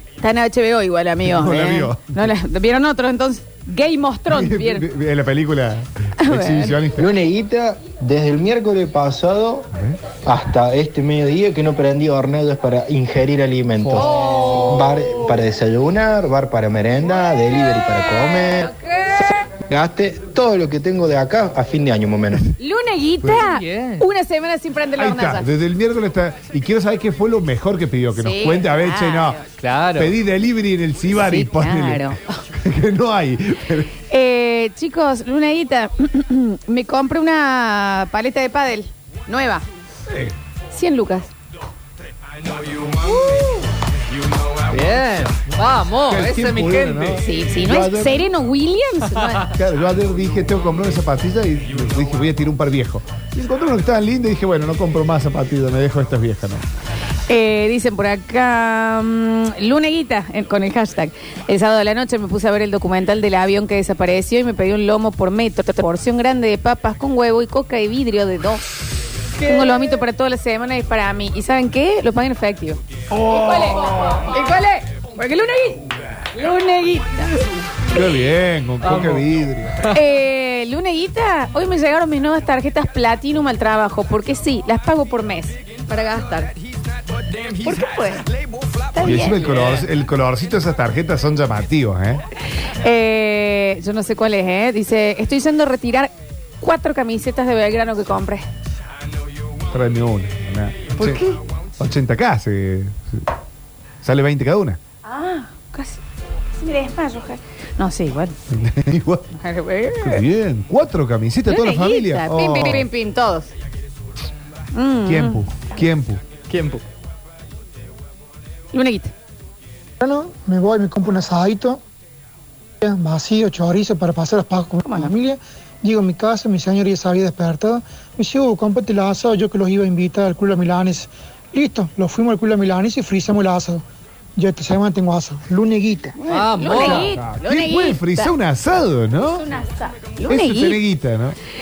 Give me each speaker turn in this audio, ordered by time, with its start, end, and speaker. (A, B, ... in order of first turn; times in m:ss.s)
0:00.2-0:04.8 A
0:01.2-0:02.3 B
0:04.3-0:07.1 B
0:06.2-0:06.8 A
0:07.0-0:09.7 C
0:09.7-0:10.0 B
0:10.2-0:18.7 C
0:13.8-0:14.6 B
0:14.0-0:14.8 A
0:17.8-0:19.5 A
0:19.7-0:22.4 C
0:22.6-0:25.4 A
0:23.3-0:24.0 D
0:25.0-0:29.4 B
0:28.1-0:29.4 A
0:29.6-0:30.2 D
0:30.0-0:33.9 B
0:31.1-0:32.4 A
0:34.1-0:39.6 A
0:40.1-0:40.3 B
0:40.7-0:41.3 A
0:43.0-0:43.6 A
0:44.7-0:47.2 D
0:46.0-0:48.3 B
0:47.2-0:49.5 A
0:49.5-0:56.6 B
0:57.3-1:08.6 A
1:09.4-1:10.0 D
1:09.4-1:17.4 A
1:13.1-1:14.2 B
1:17.9-1:19.9 B
1:18.8-1:19.2 D
1:19.9-1:26.5 A
1:27.6-1:28.2 A
1:28.9-1:29.4 A
1:29.0-1:32.2 B
1:29.4-1:29.8 D
1:32.8-1:38.4 A
1:39.7-1:41.2 B
1:41.0-1:41.3 A
1:41.8-1:43.3 B
1:44.0-1:44.8 B
1:45.0-1:46.0 A
1:46.6-1:48.4 A
1:48.5-1:49.3 B
1:49.3-1:50.2 A
1:50.0-1:52.9 B
1:51.5-1:53.5 A
1:54.7-1:55.5 A
1:55.0-1:56.2 B
1:56.5-1:56.8 D
1:58.7-1:59.1 A
2:00.0-2:01.8 E
2:02.8-2:13.8 E
2:04.8-2:05.1 A
2:14.4-2:16.2 E
2:16.2-2:18.3 A
2:16.3-2:17.1 D
2:16.7-2:19.5 B
2:19.2-2:20.8 A
2:20.3-2:21.4 B